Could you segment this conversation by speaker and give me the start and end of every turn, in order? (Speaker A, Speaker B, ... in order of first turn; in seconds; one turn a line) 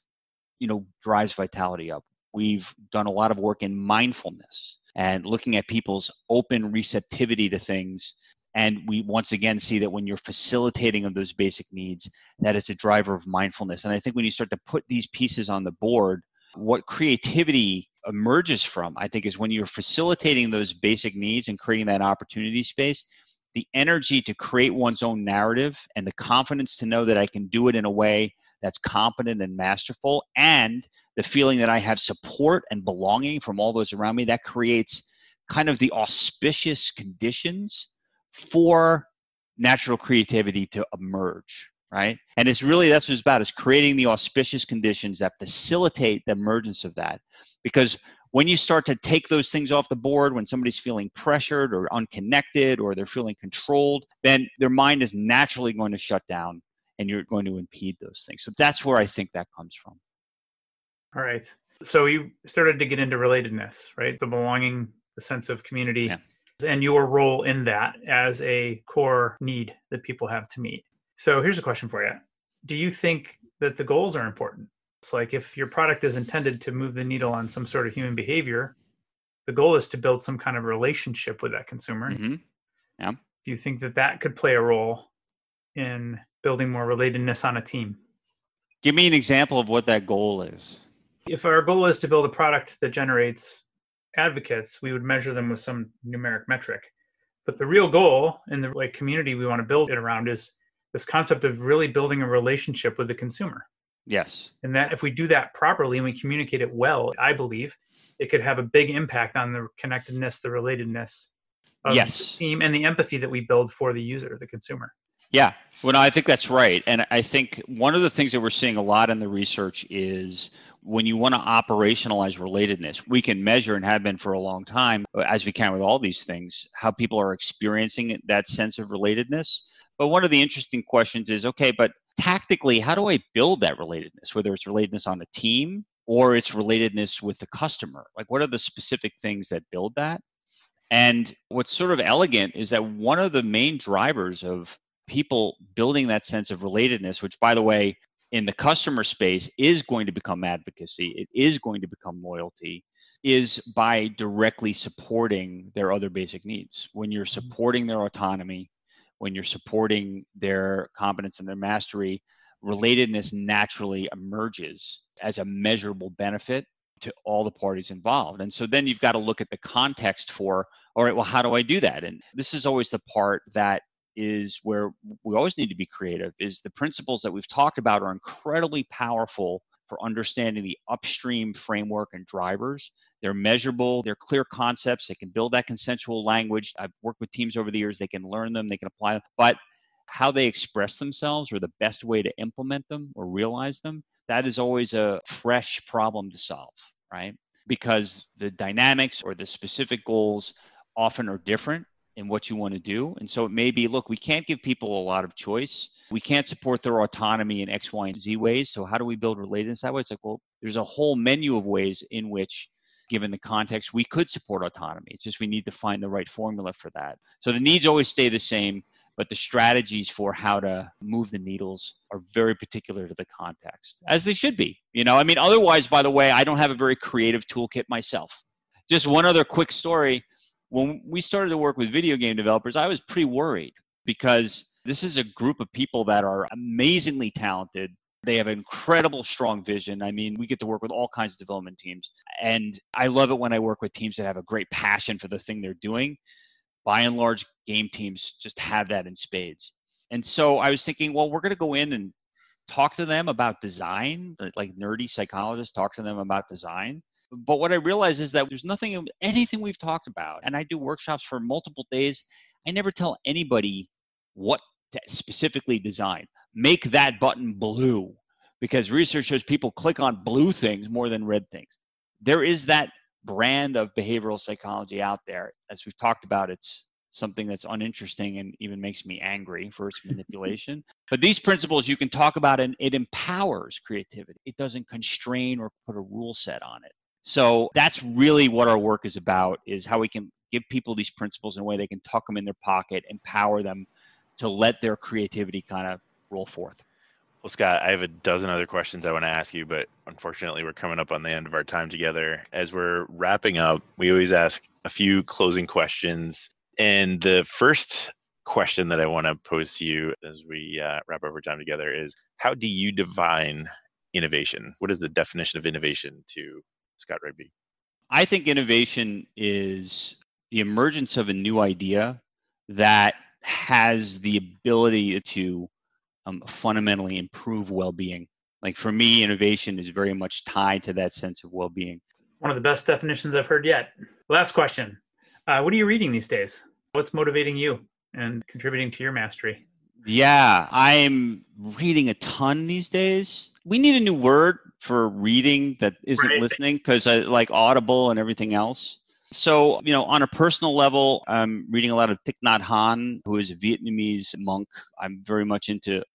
Speaker A: 0.6-39.1
Speaker A: 39.6-60.0
Speaker B: 61.1-78.8
Speaker B: 79.5-82.2
Speaker A: 82.1-82.4
Speaker B: 83.4-85.1
Speaker B: 85.8-88.0
Speaker A: 88.8-90.8
Speaker B: 91.3-93.6
Speaker B: 94.2-96.9
Speaker B: 97.5-103.7
Speaker A: 104.1-104.5
Speaker B: 104.6-111.3
Speaker B: 111.8-114.9
Speaker A: 111.9-112.3
Speaker A: 115.3-140.2
Speaker A: 140.9-158.7
Speaker A: 159.2-246.2
Speaker A: 246.8-252.1
Speaker A: 252.7-296.8
Speaker C: 297.4-317.5
Speaker A: 318.1-325.7
Speaker A: 326.3-332.0
Speaker B: 332.4-339.6
Speaker A: 340.0-356.1
Speaker B: 346.2-346.5